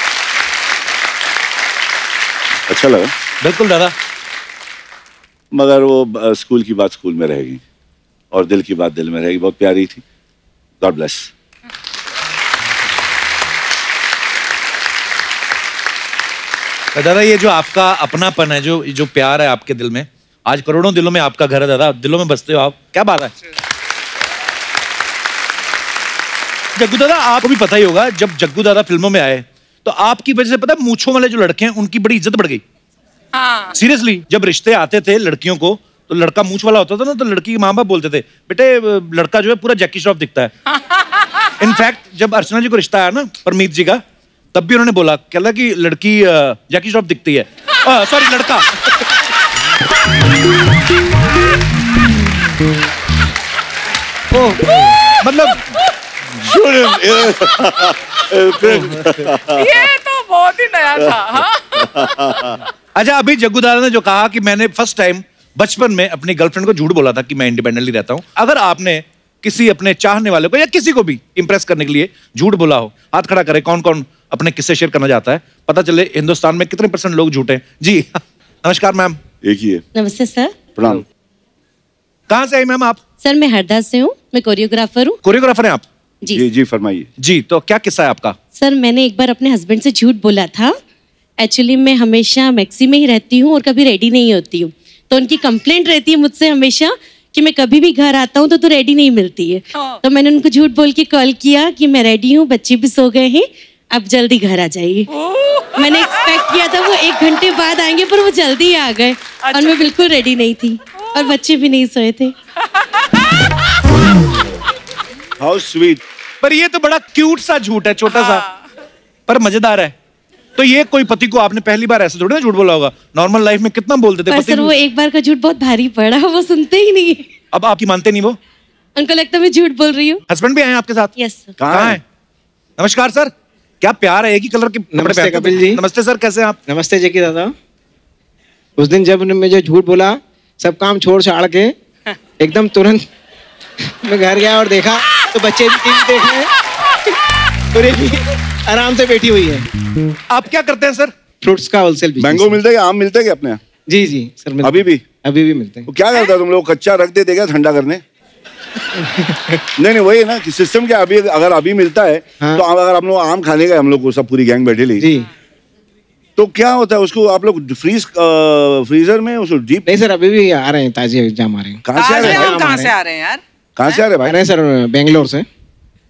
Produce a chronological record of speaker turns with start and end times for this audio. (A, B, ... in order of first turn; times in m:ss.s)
0:02.7-0:03.1 A
0:03.4-0:03.9 B
0:05.5-0:07.6 A
0:08.3-0:10.0 A
0:10.8-0:11.3 A
0:16.9-0:23.3 B
0:26.8-0:32.6 B
0:33.3-0:33.7 C
0:33.7-0:40.5 B
0:41.6-0:44.0 B
0:44.5-0:49.1 B
0:55.2-0:55.7 B
0:56.4-0:59.9 A
0:59.4-1:02.0 C
1:01.0-1:02.6 A
1:03.0-1:19.2 B
1:19.4-1:19.8 A
1:19.9-1:20.6 D
1:20.8-1:21.0 A
1:22.3-1:23.0 B
1:23.2-1:25.2 D
1:25.2-1:25.8 B
1:26.3-1:27.1 A
1:27.2-1:28.4 B
1:28.6-1:30.8 D
1:31.4-1:45.1 D
1:45.1-1:46.2 C
1:45.7-1:52.3 D
1:49.4-1:49.9 C
1:55.4-1:56.0 A
1:56.4-1:58.4 B
1:58.1-1:58.5 C
1:59.3-1:59.9 B
2:00.6-2:04.8 B
2:04.3-2:07.2 D
2:07.5-2:08.4 B
2:09.0-2:10.2 D
2:10.3-2:11.1 B
2:11.2-2:11.6 D
2:11.6-2:12.0 A
2:11.7-2:12.0 B
2:12.8-2:16.6 B
2:14.9-2:15.8 E
2:16.7-2:17.5 E
2:18.8-2:21.7 E
2:22.4-2:23.0 E
2:24.0-2:26.5 E
2:27.7-2:29.6 E
2:30.3-2:31.1 B
2:31.4-2:32.6 E
2:32.2-2:33.6 A
2:33.9-2:35.9 E
2:34.6-2:35.0 A
2:35.9-2:38.0 A
2:39.8-2:45.1 A
2:45.0-2:45.3 E
2:46.4-2:49.9 A
2:49.8-2:52.9 E
2:51.8-2:52.8 A
2:51.9-2:53.4 C
2:53.8-2:54.4 A
2:54.2-2:55.4 E